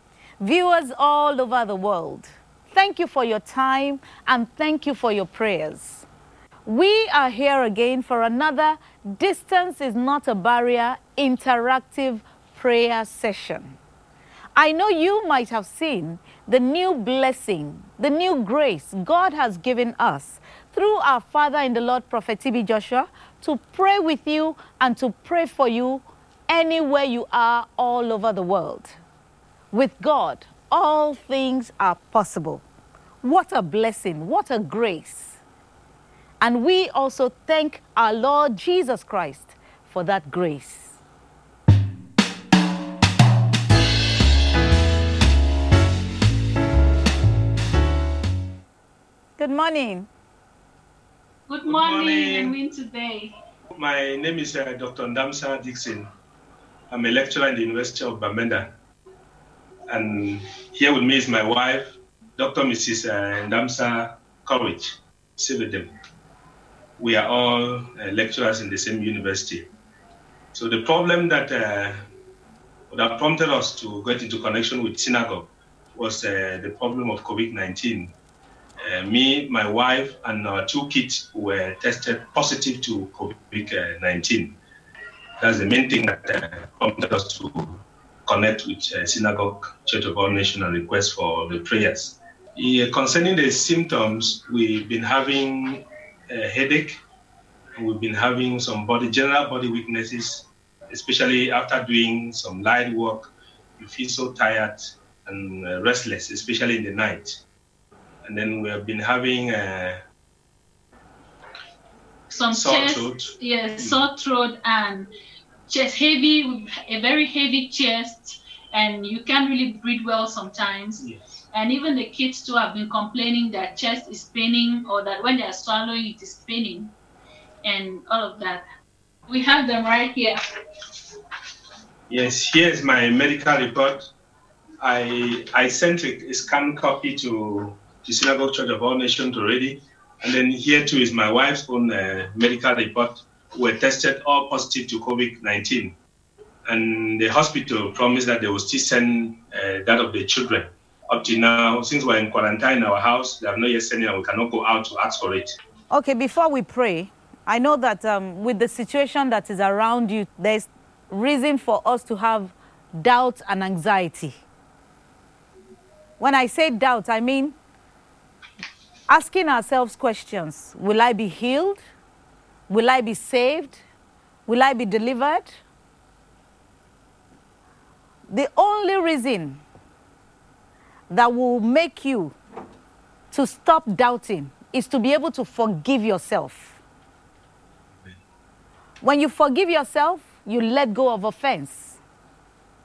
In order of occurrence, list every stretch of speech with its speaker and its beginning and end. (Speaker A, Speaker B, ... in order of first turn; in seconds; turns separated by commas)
Speaker A: 0.4-6.0, Speaker A: 6.6-13.8, Speaker A: 14.6-28.9, Speaker A: 29.7-32.6, Speaker A: 33.2-35.4, Speaker A: 36.4-40.9, Speaker A: 49.4-50.1, Speaker B: 51.5-53.3, Speaker C: 51.6-52.5, Speaker C: 53.7-56.1, Speaker C: 56.9-58.7, Speaker C: 59.9-65.9, Speaker C: 67.0-69.7, Speaker C: 70.5-72.0, Speaker C: 72.9-78.1, Speaker C: 78.8-84.5, Speaker C: 85.4-96.9, Speaker C: 97.8-107.3, Speaker C: 108.2-110.0, Speaker B: 112.3-115.1, Speaker C: 112.5-114.0, Speaker B: 115.7-126.9, Speaker B: 127.6-128.6, Speaker B: 129.3-130.4, Speaker C: 132.1-134.0, Speaker C: 134.8-145.9, Speaker C: 146.7-155.5, Speaker A: 155.9-164.4, Speaker A: 166.2-167.5, Speaker A: 169.1-171.8, Speaker A: 172.7-173.8, Speaker A: 174.5-175.5, Speaker A: 178.3-179.6, Speaker A: 181.1-182.3, Speaker A: 183.3-186.7, Speaker A: 189.0-191.9